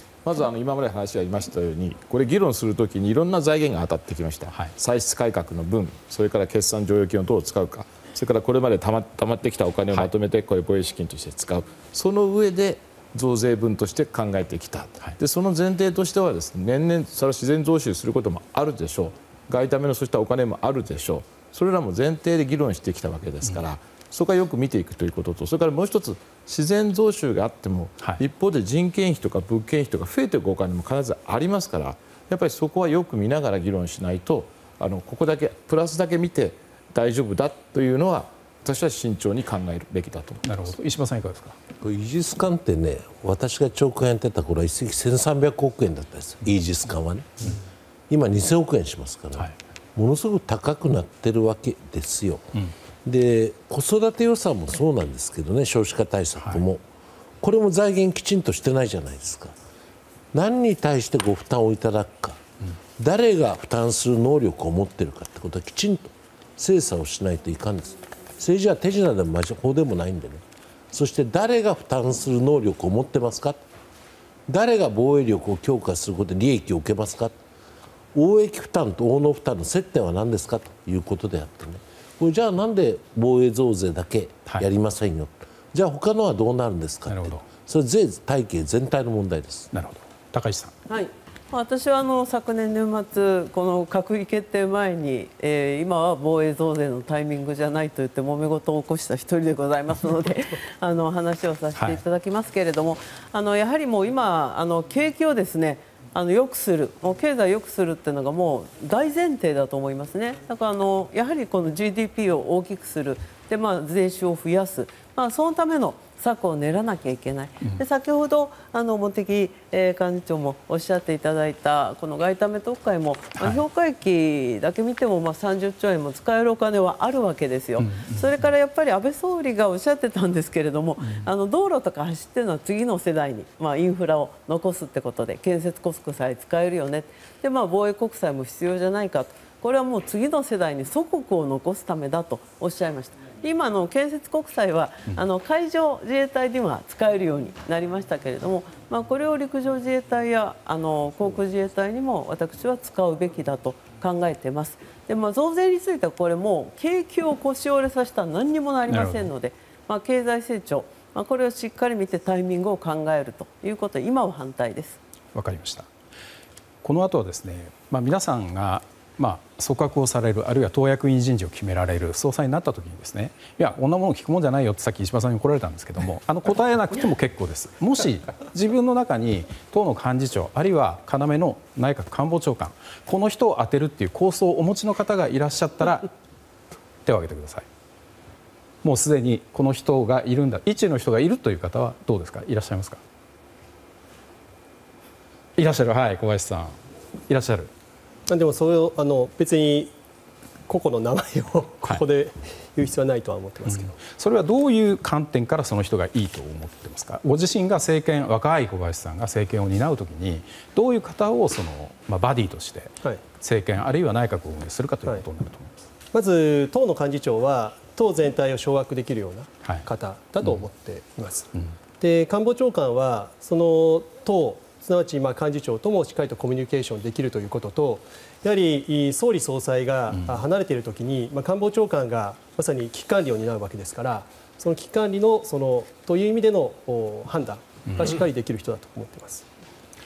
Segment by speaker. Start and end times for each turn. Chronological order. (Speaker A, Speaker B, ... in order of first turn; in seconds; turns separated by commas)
Speaker A: 0.2-40.5, Speaker B: 40.4-41.6, Speaker C: 41.8-47.5, Speaker C: 48.1-52.5, Speaker C: 53.0-56.8, Speaker B: 56.4-56.6, Speaker C: 57.4-59.5, Speaker C: 60.3-62.4, Speaker C: 63.0-73.6, Speaker C: 74.5-77.4, Speaker C: 78.1-89.7, Speaker B: 87.1-87.4, Speaker B: 89.7-90.7, Speaker D: 90.9-165.0, Speaker B: 127.8-128.3, Speaker B: 131.0-131.3, Speaker B: 158.9-159.3, Speaker B: 165.3-165.9, Speaker B: 166.8-186.1, Speaker B: 187.0-187.7, Speaker B: 188.8-193.0, Speaker B: 195.6-197.7, Speaker E: 198.3-199.9, Speaker E: 200.7-204.0, Speaker B: 203.7-215.8, Speaker E: 216.1-221.5, Speaker E: 222.0-239.4, Speaker B: 237.9-238.2